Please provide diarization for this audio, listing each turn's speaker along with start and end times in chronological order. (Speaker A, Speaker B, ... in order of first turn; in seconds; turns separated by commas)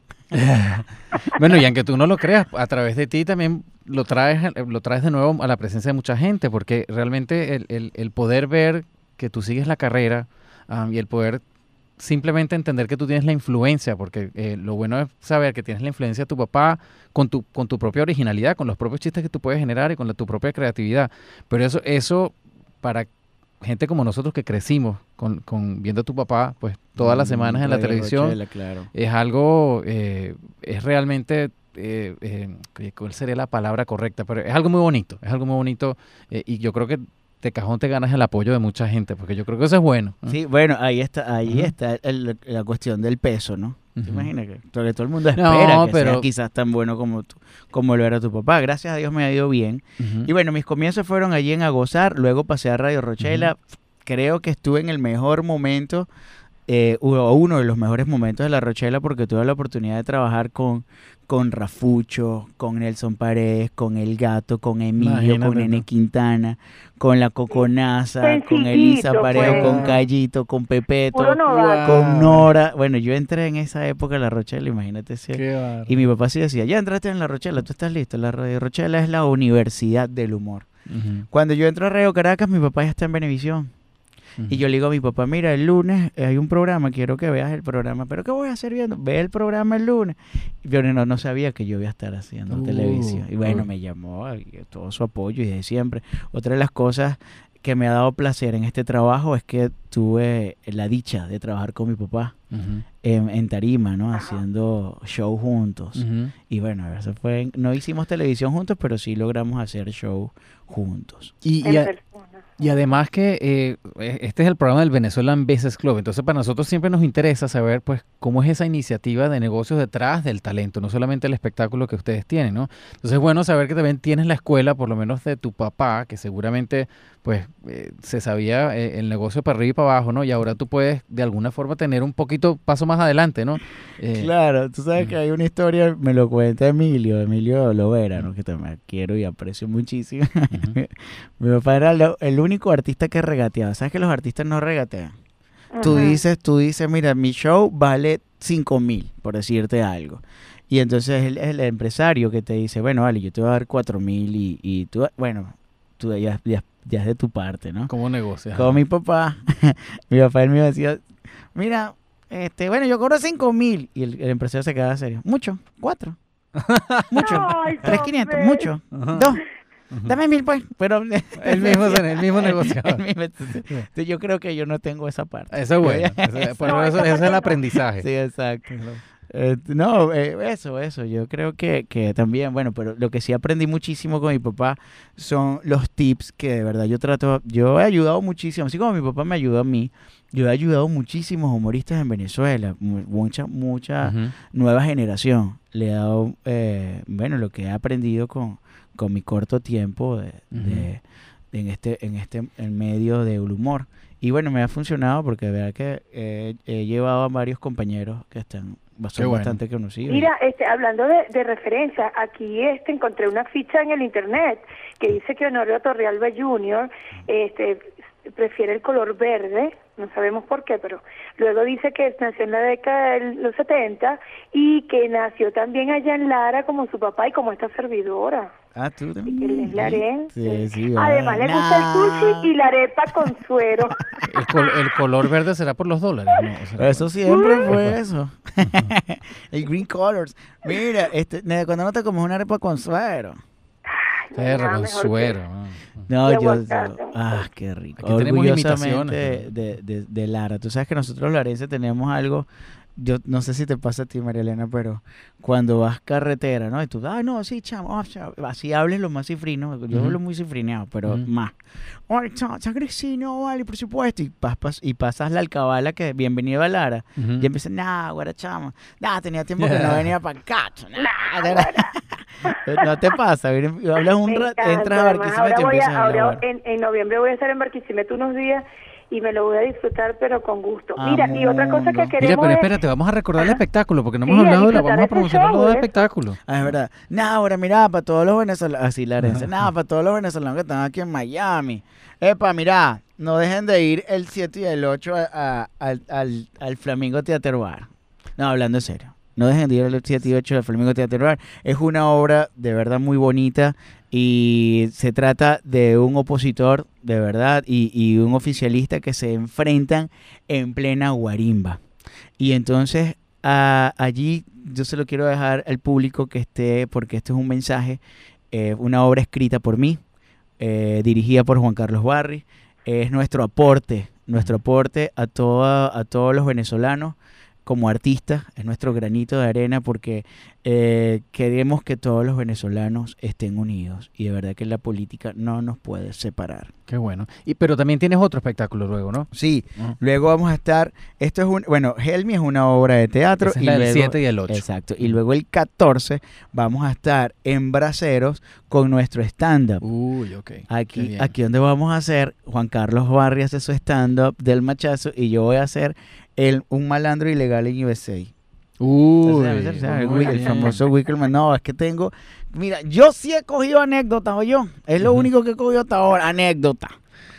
Speaker A: 0.3-11.4, Speaker A: 12.0-23.1, Speaker A: 23.6-28.4, Speaker B: 27.0-28.9, Speaker A: 28.9-40.4, Speaker B: 40.2-56.1, Speaker A: 41.5-41.7, Speaker A: 44.0-44.3, Speaker A: 45.4-46.3, Speaker A: 50.0-50.3, Speaker A: 53.2-53.5, Speaker B: 56.7-80.7, Speaker A: 65.0-65.8, Speaker C: 68.2-69.9, Speaker A: 69.3-70.0, Speaker C: 71.1-72.0, Speaker A: 71.5-72.5, Speaker A: 75.3-76.0, Speaker A: 80.9-81.2, Speaker B: 81.3-83.7, Speaker B: 84.5-102.3, Speaker A: 92.5-93.7, Speaker A: 102.5-102.8, Speaker B: 103.0-111.3, Speaker C: 104.1-104.4, Speaker A: 106.0-106.3, Speaker A: 111.4-111.9, Speaker C: 111.6-112.4, Speaker A: 112.6-134.3, Speaker B: 134.1-145.1, Speaker C: 145.7-146.2, Speaker B: 145.8-157.9, Speaker A: 157.9-158.8, Speaker B: 158.5-166.2, Speaker A: 166.6-168.0, Speaker B: 167.1-169.4, Speaker C: 167.2-168.7, Speaker A: 168.9-169.3, Speaker A: 169.9-170.2, Speaker B: 170.1-178.7, Speaker A: 171.4-173.0, Speaker A: 175.5-178.1, Speaker C: 176.6-177.6, Speaker A: 178.7-179.0, Speaker B: 179.2-201.0, Speaker A: 194.0-194.3, Speaker A: 200.5-200.9, Speaker B: 201.5-210.3, Speaker A: 209.2-209.6, Speaker C: 210.1-228.5, Speaker B: 228.7-232.5, Speaker C: 229.2-234.0, Speaker A: 234.3-238.0, Speaker B: 236.8-243.4, Speaker C: 237.2-237.7, Speaker A: 238.6-238.9, Speaker C: 243.9-245.3, Speaker A: 244.3-246.1, Speaker B: 246.1-261.6, Speaker C: 246.2-247.2, Speaker A: 248.0-249.5, Speaker A: 259.9-260.2, Speaker B: 262.1-276.4, Speaker A: 267.2-267.5, Speaker A: 269.6-270.1, Speaker C: 270.9-271.9, Speaker C: 272.4-272.9, Speaker C: 274.2-282.7, Speaker B: 281.0-282.1, Speaker A: 282.2-286.7, Speaker C: 284.2-285.9, Speaker B: 286.5-311.8, Speaker A: 289.2-289.5, Speaker B: 312.4-318.0, Speaker B: 318.5-320.0, Speaker B: 320.6-336.7, Speaker A: 336.9-339.9, Speaker B: 339.3-349.8, Speaker A: 343.4-345.2, Speaker A: 349.8-351.3, Speaker B: 350.7-358.3, Speaker A: 358.8-360.8, Speaker B: 359.2-366.9, Speaker A: 365.0-365.3